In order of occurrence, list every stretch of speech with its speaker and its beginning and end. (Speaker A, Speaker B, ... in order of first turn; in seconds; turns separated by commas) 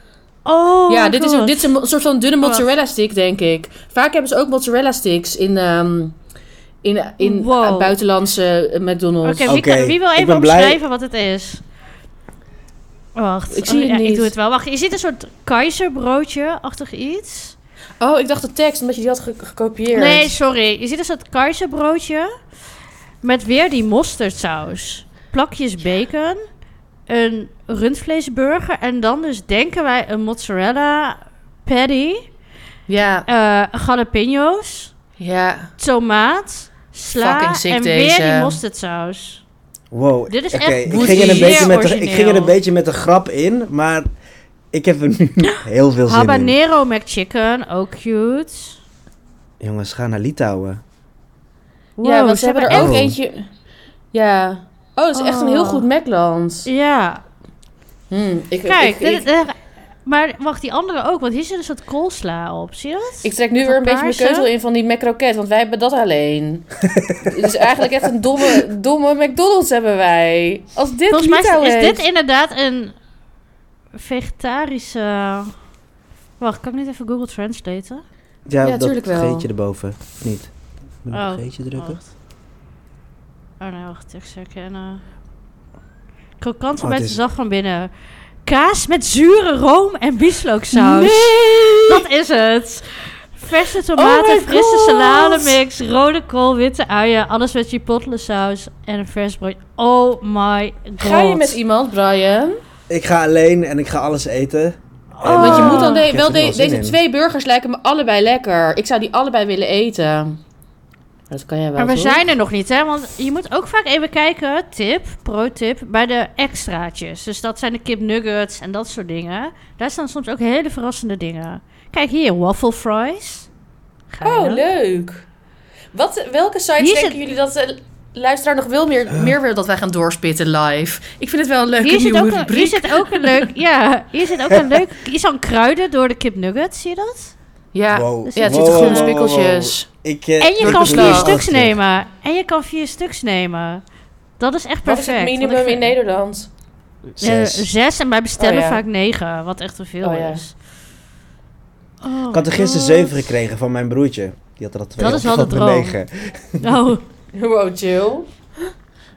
Speaker A: 0.5-1.7, Speaker B: 0.9-6.2, Speaker B: 6.8-9.6, Speaker A: 7.2-8.0, Speaker A: 9.2-11.6, Speaker C: 9.5-10.8, Speaker A: 13.2-17.6, Speaker B: 13.5-14.3, Speaker B: 18.0-20.3, Speaker A: 19.9-22.3, Speaker A: 23.2-26.4, Speaker A: 27.1-32.3, Speaker B: 32.9-33.3, Speaker A: 33.3-34.9, Speaker B: 35.2-35.7, Speaker A: 35.8-39.4, Speaker B: 37.1-38.6, Speaker C: 39.9-44.1, Speaker A: 40.3-42.5, Speaker B: 40.9-41.8, Speaker C: 44.7-46.5, Speaker A: 46.1-48.8, Speaker C: 49.6-50.8, Speaker A: 52.0-53.0, Speaker B: 52.0-53.5, Speaker C: 52.7-53.2, Speaker B: 54.1-56.7, Speaker A: 55.1-55.9, Speaker A: 56.7-57.2, Speaker B: 58.1-59.3, Speaker A: 58.7-64.5, Speaker B: 63.2-72.0, Speaker C: 66.9-67.8, Speaker A: 71.1-73.0, Speaker A: 73.9-75.5, Speaker A: 76.4-78.0, Speaker C: 78.5-80.5, Speaker B: 78.6-79.5, Speaker C: 81.0-82.0, Speaker A: 81.1-82.0, Speaker A: 83.6-85.0, Speaker A: 86.4-87.9, Speaker C: 86.8-87.2, Speaker A: 88.5-101.6, Speaker B: 90.7-92.0, Speaker B: 93.9-95.6, Speaker B: 101.0-102.6, Speaker C: 102.9-107.0, Speaker A: 105.2-106.1, Speaker B: 105.3-110.4, Speaker B: 111.3-112.2, Speaker A: 111.8-123.5, Speaker A: 124.1-124.7, Speaker B: 124.2-125.3, Speaker B: 125.9-133.5, Speaker A: 126.8-127.2, Speaker A: 131.8-137.3, Speaker B: 137.7-139.9, Speaker C: 137.9-141.8, Speaker A: 138.3-139.2, Speaker A: 140.4-143.8, Speaker B: 140.6-141.4, Speaker A: 144.4-145.9, Speaker B: 144.8-146.5, Speaker A: 147.2-150.5, Speaker C: 147.2-147.7, Speaker B: 148.4-148.8, Speaker B: 150.0-150.4, Speaker A: 152.0-153.3, Speaker C: 152.3-156.8, Speaker A: 155.0-156.0, Speaker A: 156.6-157.0, Speaker B: 157.3-158.3